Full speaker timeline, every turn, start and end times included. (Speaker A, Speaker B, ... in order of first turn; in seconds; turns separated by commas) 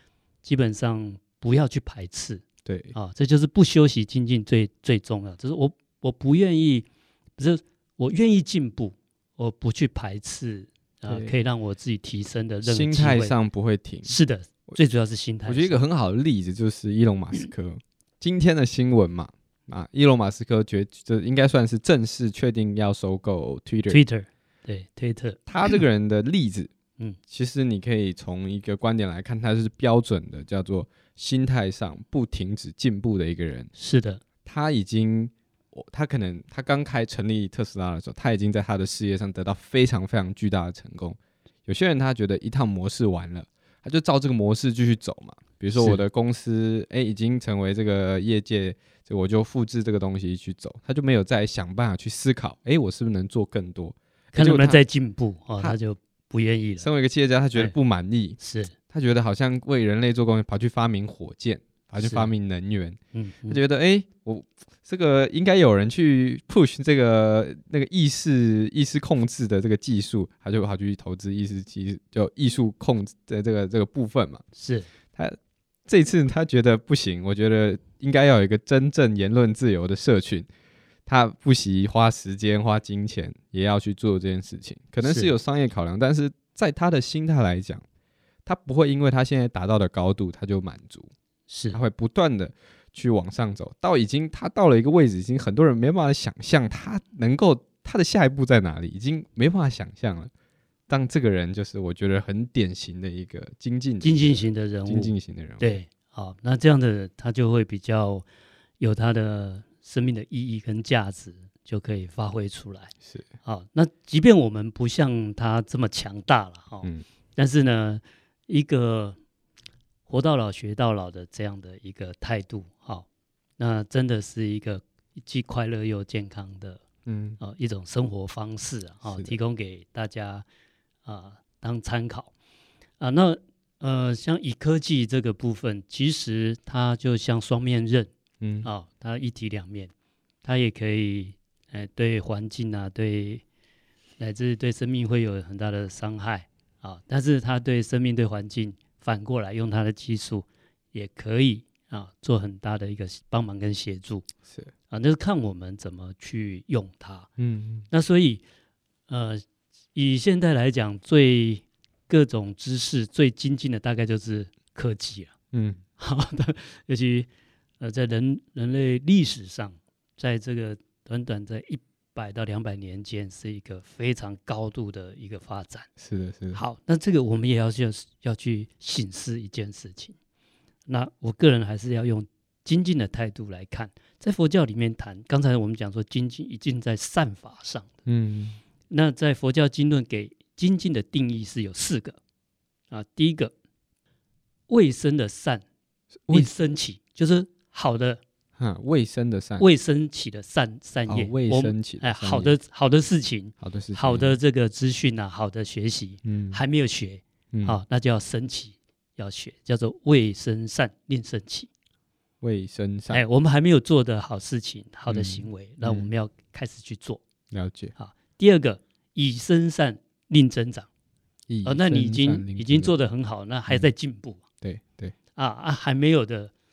Speaker A: 0.4-13.3, Speaker B: 2.6-3.0, Speaker B: 11.1-11.3, Speaker B: 12.6-14.1, Speaker A: 14.0-15.8, Speaker B: 15.4-24.0, Speaker A: 23.9-25.8, Speaker B: 25.5-26.7, Speaker B: 27.3-33.7, Speaker A: 33.8-34.2, Speaker B: 34.4-54.8, Speaker A: 45.8-46.0, Speaker A: 54.3-56.9, Speaker B: 56.8-58.4, Speaker A: 58.4-58.7, Speaker B: 58.9-74.4, Speaker A: 62.0-62.3, Speaker A: 63.1-63.6, Speaker A: 74.5-74.9, Speaker B: 75.1-80.5, Speaker B: 81.0-87.8, Speaker A: 85.0-85.3, Speaker B: 88.5-91.1, Speaker A: 91.5-91.8, Speaker B: 91.7-100.3, Speaker B: 100.9-105.8, Speaker A: 104.0-108.2, Speaker A: 108.8-112.9, Speaker A: 113.4-119.2, Speaker A: 120.1-123.0, Speaker A: 123.6-126.8, Speaker B: 127.0-127.4, Speaker A: 127.4-130.4, Speaker B: 129.1-129.3, Speaker A: 131.0-132.3, Speaker A: 133.0-138.1, Speaker B: 138.4-138.7, Speaker A: 138.6-139.9, Speaker A: 140.4-143.4, Speaker A: 144.2-154.2, Speaker A: 154.9-157.3, Speaker B: 157.4-157.9, Speaker A: 157.9-158.4, Speaker A: 159.1-159.4, Speaker A: 159.9-165.3, Speaker B: 165.5-165.8, Speaker A: 166.0-167.3, Speaker A: 167.8-175.9, Speaker B: 176.0-176.6, Speaker A: 176.5-180.2, Speaker A: 180.9-187.9, Speaker B: 188.1-188.6, Speaker A: 188.9-192.2, Speaker A: 192.9-193.5, Speaker A: 194.7-195.6, Speaker A: 196.3-198.2, Speaker B: 198.6-199.7, Speaker A: 199.6-211.7, Speaker B: 201.1-202.6, Speaker B: 203.6-204.4, Speaker B: 206.2-206.6, Speaker B: 207.5-207.8, Speaker B: 212.4-213.2, Speaker A: 213.1-217.2, Speaker B: 215.1-216.1, Speaker B: 217.5-217.9, Speaker A: 218.0-220.9, Speaker B: 221.5-222.9, Speaker A: 221.6-224.4, Speaker B: 224.6-225.1, Speaker A: 225.3-226.5